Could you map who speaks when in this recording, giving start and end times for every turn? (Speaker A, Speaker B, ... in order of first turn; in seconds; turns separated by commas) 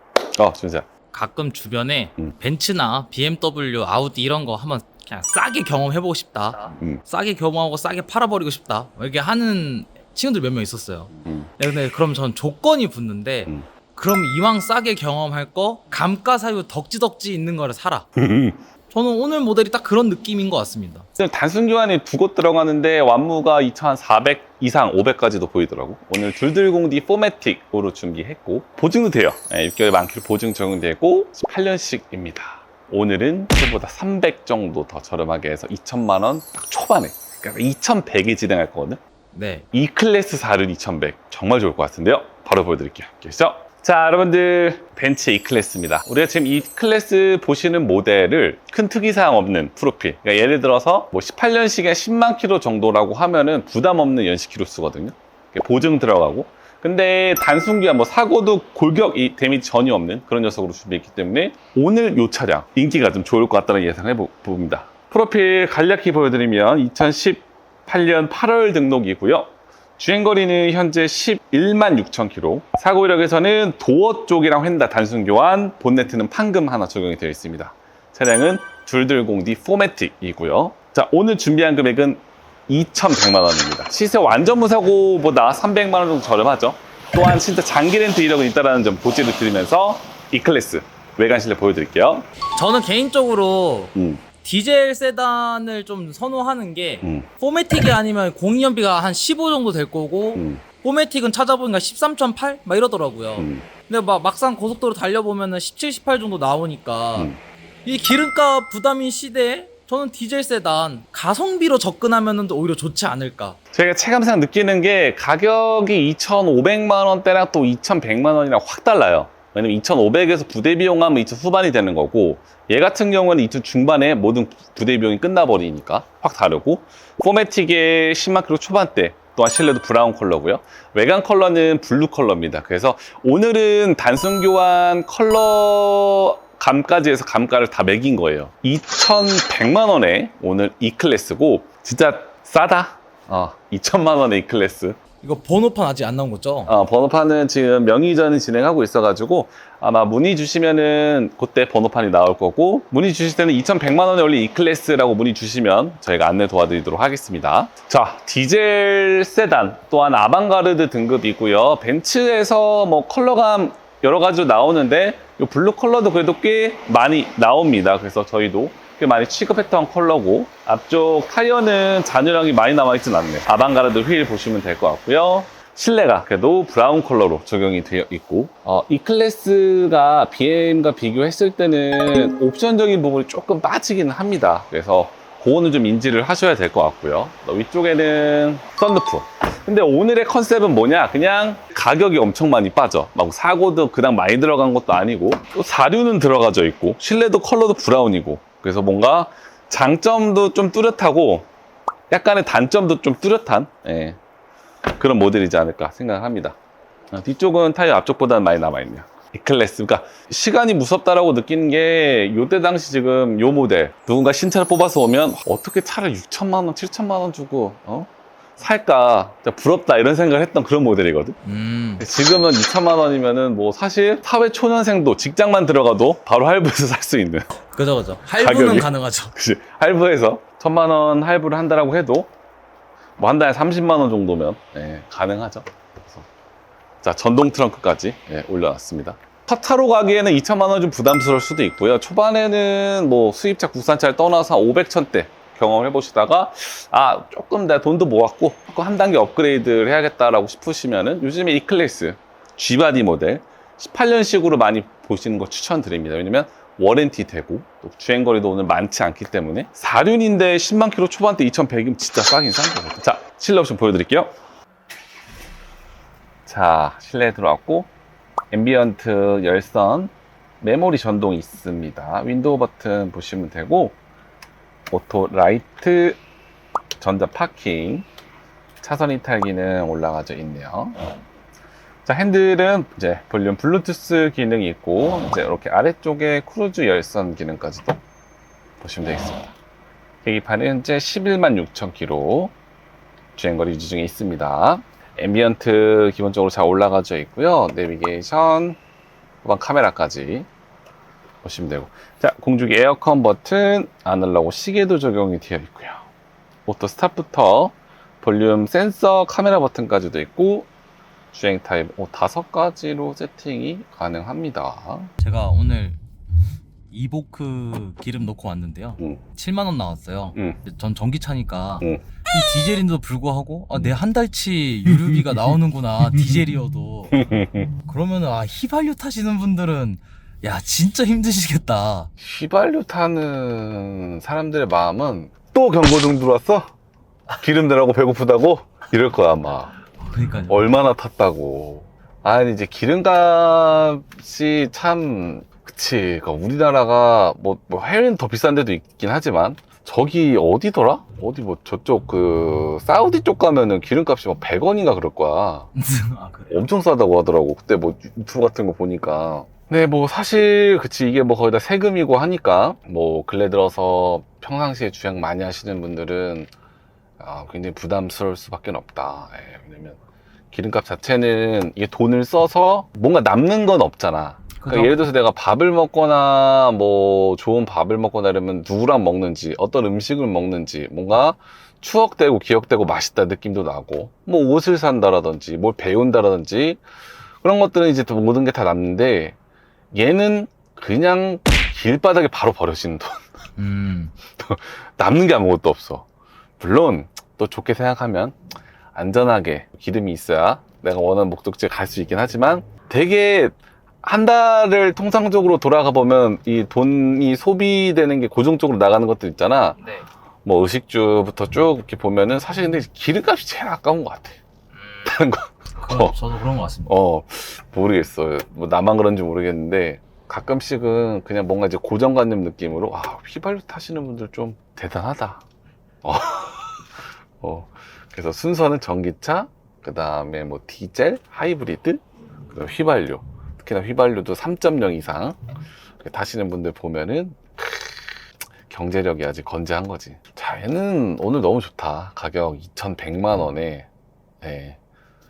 Speaker A: 0.4-0.9, Speaker B: 1.1-18.1, Speaker A: 18.2-18.6, Speaker B: 18.9-21.1, Speaker A: 21.2-39.0, Speaker B: 39.3-39.7, Speaker A: 39.7-92.3, Speaker B: 92.5-107.3, Speaker A: 94.0-94.2, Speaker A: 97.0-97.3, Speaker A: 100.4-100.6, Speaker A: 103.4-103.7, Speaker B: 107.8-113.6, Speaker A: 113.7-145.0, Speaker B: 145.2-146.7, Speaker A: 146.7-201.5, Speaker A: 202.1-204.2, Speaker A: 205.0-206.6, Speaker A: 207.1-221.4, Speaker B: 221.4-222.1, Speaker A: 222.0-227.5, Speaker B: 227.7-229.3, Speaker A: 228.4-232.3, Speaker A: 233.2-236.3, Speaker A: 237.0-264.3, Speaker A: 266.5-267.9, Speaker A: 268.5-274.0, Speaker A: 274.9-276.2, Speaker A: 277.0-278.1, Speaker A: 278.8-281.0, Speaker A: 282.1-288.0, Speaker A: 288.8-289.6, Speaker A: 290.2-292.6, Speaker A: 293.4-298.8, Speaker A: 299.4-300.5, Speaker A: 301.4-306.1, Speaker A: 306.7-310.7, Speaker A: 311.3-315.1, Speaker B: 315.2-316.0, Speaker B: 316.9-327.2, Speaker A: 327.1-327.7, Speaker B: 327.9-332.1, Speaker A: 332.2-336.7, Speaker A: 337.4-339.8, Speaker B: 340.0-340.6, Speaker A: 340.5-355.7, Speaker B: 355.8-356.7, Speaker A: 356.5-366.5, Speaker A: 367.2-370.0, Speaker A: 370.5-386.8, Speaker B: 374.6-375.1, Speaker A: 387.4-389.4, Speaker A: 389.9-393.2, Speaker B: 393.6-394.1, Speaker A: 394.4-396.1, Speaker A: 396.6-398.4, Speaker A: 398.9-409.9, Speaker A: 410.4-414.4, Speaker B: 414.8-415.1, Speaker A: 415.0-416.2, Speaker B: 415.8-417.0, Speaker A: 416.9-425.4, Speaker A: 426.0-435.4, Speaker A: 436.0-443.9, Speaker A: 444.4-444.8